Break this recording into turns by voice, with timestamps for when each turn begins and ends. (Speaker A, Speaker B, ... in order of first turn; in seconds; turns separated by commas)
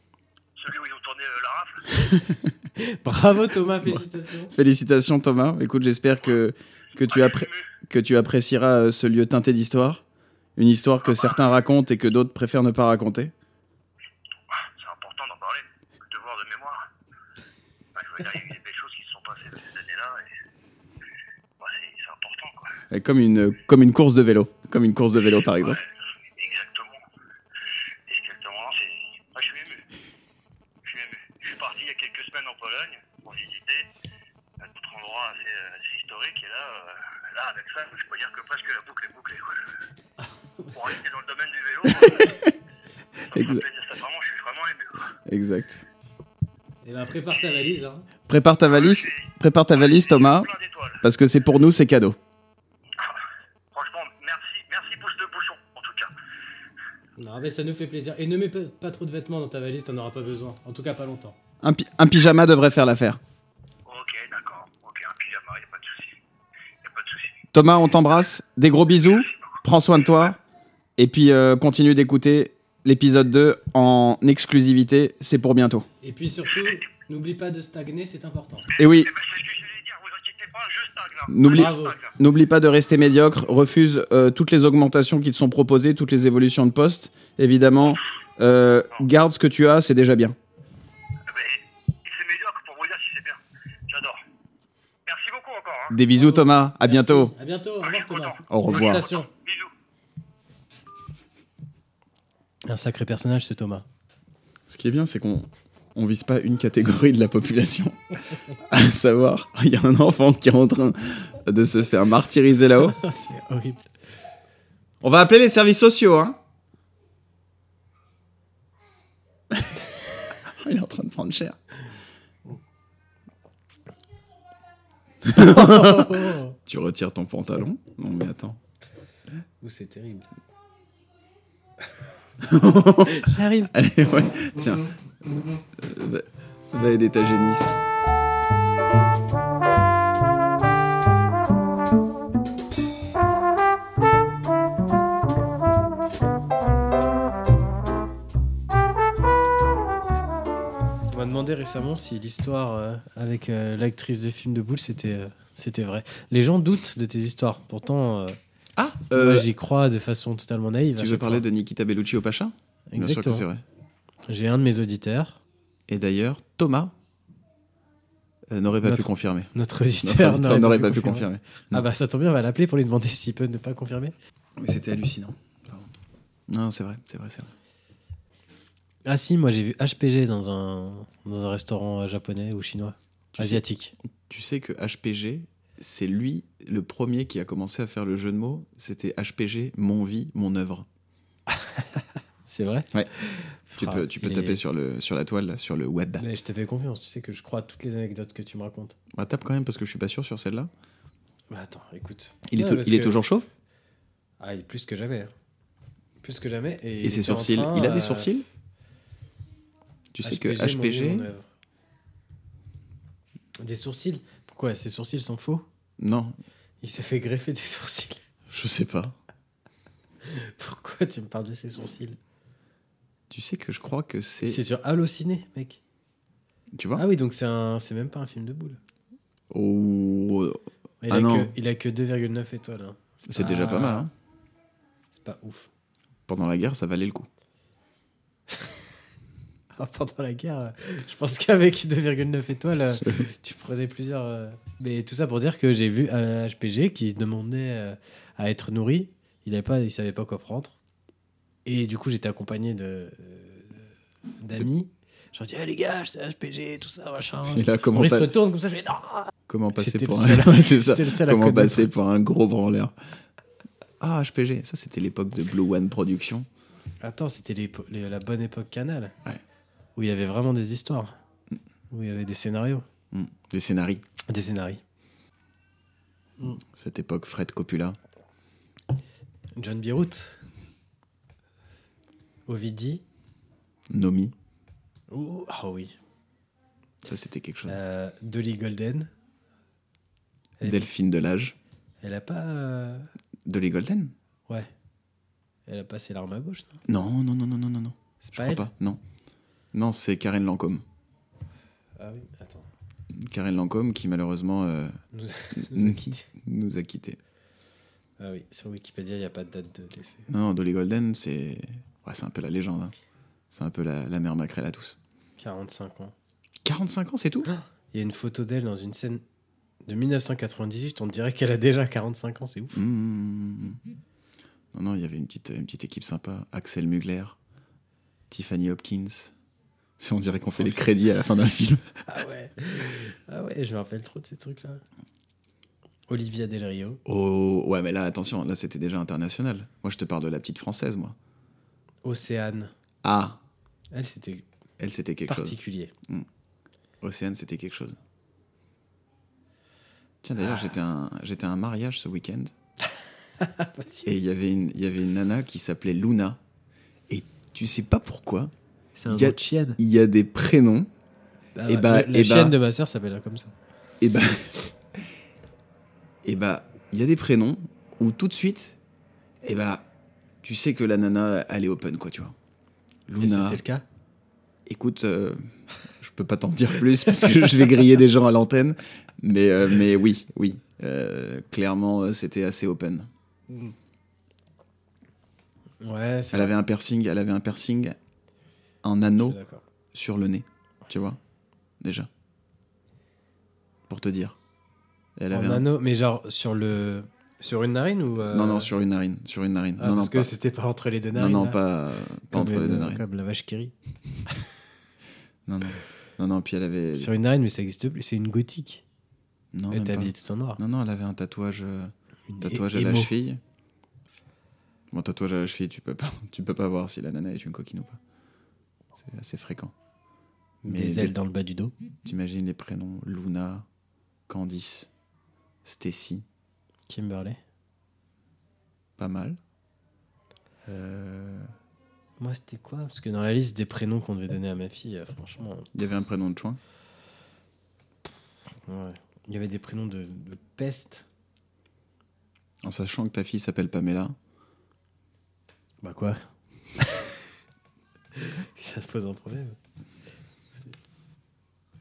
Speaker A: 0.6-1.9, Speaker B: 2.0-2.5, Speaker C: 2.8-4.5, Speaker B: 3.9-10.0, Speaker A: 7.1-7.7, Speaker B: 10.6-13.3, Speaker A: 11.1-11.4, Speaker A: 14.5-16.8, Speaker A: 17.9-20.3, Speaker A: 21.6-22.8, Speaker B: 22.9-25.8, Speaker A: 25.4-27.0, Speaker A: 28.1-29.8, Speaker A: 30.8-33.9, Speaker A: 34.6-39.7, Speaker C: 40.2-40.8, Speaker A: 40.7-42.4, Speaker B: 41.9-42.5, Speaker A: 43.3-45.1, Speaker B: 43.3-43.6, Speaker B: 45.3-45.9, Speaker C: 46.9-48.1, Speaker B: 48.3-50.5, Speaker A: 48.7-51.0, Speaker B: 51.0-52.2, Speaker A: 53.7-56.1, Speaker C: 57.2-61.4, Speaker B: 61.6-63.2, Speaker A: 63.9-66.2, Speaker A: 66.8-67.4, Speaker B: 67.5-70.4, Speaker A: 69.0-69.6, Speaker B: 71.0-75.9, Speaker C: 76.0-78.7, Speaker B: 78.8-79.1, Speaker A: 78.8-82.2, Speaker B: 81.3-90.4, Speaker C: 81.5-82.0, Speaker A: 91.3-94.2, Speaker A: 95.1-96.0, Speaker B: 95.9-97.3, Speaker C: 96.2-99.3, Speaker A: 97.8-99.7, Speaker B: 98.5-99.1, Speaker C: 102.7-103.9, Speaker B: 104.7-108.0, Speaker B: 108.5-113.0, Speaker C: 112.9-113.9, Speaker B: 115.0-116.4, Speaker B: 120.5-121.6, Speaker B: 125.2-128.6, Speaker C: 125.3-126.6, Speaker C: 129.6-130.3, Speaker B: 132.4-134.9, Speaker C: 133.0-133.7, Speaker B: 135.8-137.8, Speaker C: 151.1-158.4, Speaker B: 158.8-159.5, Speaker C: 159.1-161.4, Speaker B: 161.0-163.6, Speaker C: 162.9-163.5, Speaker C: 164.3-165.4, Speaker B: 165.9-166.9, Speaker B: 168.5-171.9, Speaker C: 168.8-174.2, Speaker B: 174.6-175.9, Speaker B: 176.5-177.5, Speaker C: 179.1-183.9, Speaker B: 183.3-190.9, Speaker C: 191.6-194.6, Speaker B: 193.8-196.3, Speaker C: 196.2-199.0, Speaker B: 199.1-200.7, Speaker C: 201.5-203.2, Speaker B: 202.5-203.5, Speaker C: 204.4-205.3, Speaker C: 206.2-208.3, Speaker B: 207.0-208.5, Speaker B: 210.1-211.3, Speaker C: 210.2-211.5, Speaker C: 213.6-215.7, Speaker B: 216.0-216.4, Speaker C: 216.8-218.2, Speaker B: 218.5-219.2, Speaker C: 220.2-222.2, Speaker B: 223.3-224.6, Speaker C: 224.4-225.8, Speaker B: 226.7-227.1, Speaker C: 226.9-228.8, Speaker B: 229.5-231.5, Speaker C: 231.0-234.1, Speaker B: 233.3-234.1, Speaker C: 235.1-235.7, Speaker B: 236.3-237.3, Speaker C: 238.5-238.8, Speaker C: 239.8-250.8, Speaker B: 242.9-243.3, Speaker C: 251.7-253.9, Speaker C: 254.4-261.9, Speaker B: 257.5-258.3, Speaker B: 259.5-262.9, Speaker B: 264.0-266.5, Speaker C: 267.0-269.1, Speaker C: 270.0-271.1, Speaker C: 271.9-272.9, Speaker B: 273.1-274.0, Speaker C: 274.3-274.8, Speaker B: 276.6-278.0, Speaker C: 279.6-280.4, Speaker C: 282.5-283.0, Speaker B: 283.9-284.3, Speaker C: 285.1-286.0, Speaker B: 287.0-287.8, Speaker C: 287.7-289.1, Speaker C: 290.6-290.9, Speaker B: 290.6-291.6, Speaker C: 292.0-293.1, Speaker B: 293.5-294.1, Speaker C: 295.7-296.8, Speaker B: 296.9-299.0, Speaker C: 298.2-298.7, Speaker B: 299.7-300.8, Speaker C: 302.0-302.7, Speaker B: 303.1-305.0, Speaker C: 305.1-306.3, Speaker B: 305.6-307.2, Speaker C: 308.2-310.3, Speaker B: 310.3-312.9, Speaker B: 313.5-315.0, Speaker C: 315.4-316.1, Speaker B: 316.6-317.5, Speaker C: 317.5-319.2, Speaker C: 319.9-322.8, Speaker B: 322.7-323.8, Speaker B: 324.7-327.4, Speaker B: 328.3-329.3, Speaker B: 330.0-331.9, Speaker C: 332.1-334.8, Speaker C: 336.1-337.0, Speaker B: 337.1-341.2, Speaker C: 342.0-342.7, Speaker B: 343.0-343.4, Speaker C: 343.9-344.5, Speaker B: 344.8-346.3, Speaker C: 345.3-345.9, Speaker B: 347.0-348.0, Speaker B: 350.2-352.5, Speaker C: 350.4-350.7, Speaker C: 353.4-354.1, Speaker B: 354.1-356.4, Speaker B: 357.1-358.5, Speaker C: 359.0-359.8, Speaker B: 359.1-360.9, Speaker C: 361.6-363.5, Speaker B: 361.7-362.6, Speaker B: 364.0-364.7, Speaker B: 366.2-368.8, Speaker B: 369.4-369.9, Speaker B: 370.4-372.4, Speaker B: 373.1-373.6, Speaker C: 373.2-373.8, Speaker B: 374.7-383.1, Speaker C: 377.2-377.5, Speaker C: 385.8-386.5, Speaker B: 386.3-388.0, Speaker B: 388.8-389.4, Speaker C: 389.2-389.6, Speaker B: 389.9-391.2, Speaker B: 391.8-392.1, Speaker B: 393.9-394.4, Speaker B: 395.2-395.7, Speaker C: 395.3-398.7, Speaker B: 398.2-400.3, Speaker C: 399.8-401.6, Speaker B: 401.1-403.0, Speaker C: 402.3-403.7, Speaker B: 405.5-407.1, Speaker C: 406.9-408.8, Speaker B: 409.5-413.4, Speaker C: 409.7-410.6, Speaker C: 412.3-413.1, Speaker B: 414.9-418.0, Speaker B: 418.9-419.7, Speaker C: 420.6-421.7, Speaker B: 420.7-421.2, Speaker B: 422.0-423.7, Speaker B: 424.3-424.9, Speaker B: 425.6-426.2, Speaker C: 426.9-427.4, Speaker B: 429.0-429.4, Speaker B: 430.7-431.5, Speaker C: 432.2-435.7, Speaker B: 435.7-436.6, Speaker C: 438.7-441.1, Speaker B: 442.6-444.2, Speaker C: 445.8-446.2, Speaker C: 446.8-447.1, Speaker C: 448.1-449.6